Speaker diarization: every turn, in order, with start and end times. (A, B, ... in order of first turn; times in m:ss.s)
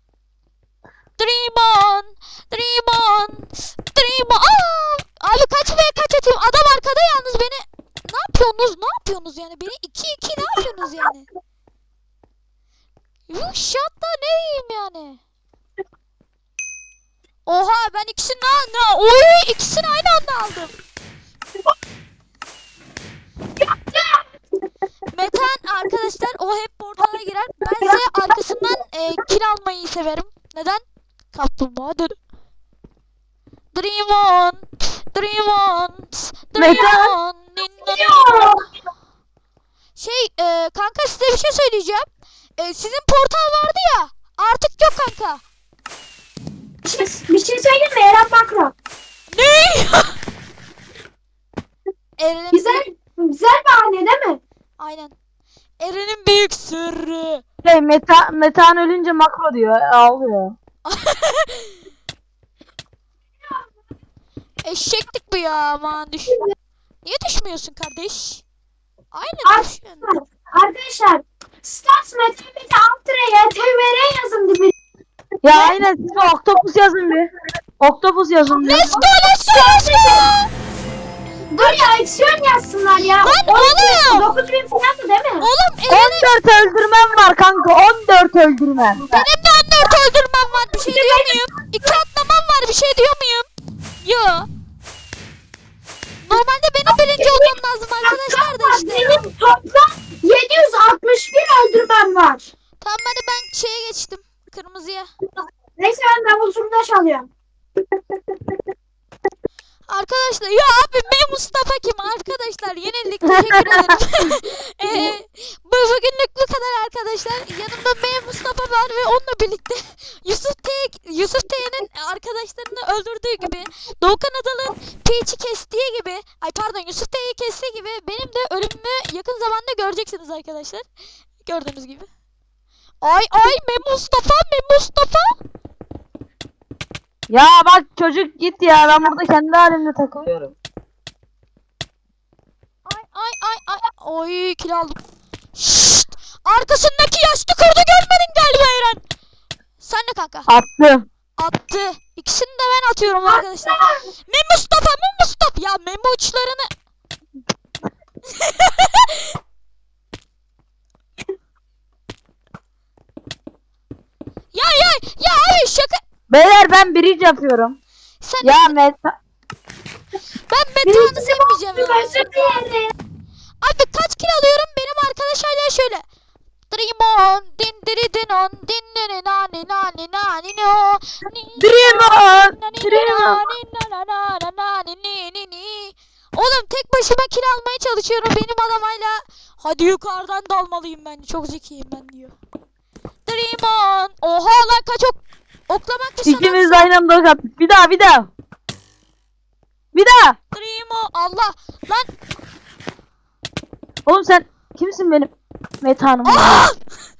0:01.2-0:11.3 A
0:13.3-0:15.2 A
0:17.5-0:20.8 A
0:23.6-0:24.2 B
0:25.1-0:32.2 A
0:33.7-0:38.6 A
0:36.6-0:37.1 C
0:37.8-0:38.6 B
0:40.0-0:42.1 A
0:42.6-0:45.4 A
0:46.8-0:48.7 B
0:49.3-0:50.2 A
0:52.2-0:52.8 A
0:52.5-0:54.4 B
0:54.8-0:55.1 A
0:55.8-0:57.4 A
0:57.6-1:00.6 C
1:00.9-1:01.8 A
1:04.6-1:06.5 A
1:07.0-1:08.4 A
1:09.1-1:10.1 A
1:09.4-1:14.7 B
1:15.4-1:19.0 C
1:15.5-1:15.8 B
1:18.6-1:20.3 B
1:18.6-1:20.5 A
1:21.5-1:25.5 B
1:21.6-1:21.9 A
1:23.2-1:24.3 A
1:25.4-1:26.3 A
1:25.9-1:29.2 C
1:29.1-1:33.5 A
1:30.8-1:32.0 B
1:34.0-1:34.5 A
1:36.2-1:39.2 A
1:36.9-1:42.5 B
1:42.8-1:45.1 A
1:45.8-1:47.3 B
1:49.9-2:10.8 A
2:11.4-2:12.1 A
2:13.0-2:15.3 A
2:17.3-2:20.6 C
2:22.9-2:25.0 A
2:25.6-2:29.0 A
2:29.8-2:30.5 A
2:30.5-2:31.0 C
2:31.4-2:36.7 A
2:33.3-2:34.0 B
2:38.3-2:39.3 A
2:44.5-2:46.0 A
2:46.3-2:47.8 C
2:48.2-2:48.8 A
2:48.4-2:49.2 C
2:50.5-2:52.3 A
2:50.8-2:52.9 B
2:53.6-2:56.0 A
2:56.7-3:12.3 A
3:01.6-3:03.4 C
3:13.3-3:16.9 A
3:16.2-3:18.3 C
3:19.9-3:20.4 C
3:20.5-3:22.1 A
3:24.1-3:25.3 C
3:25.8-3:26.7 C
3:26.2-3:26.8 A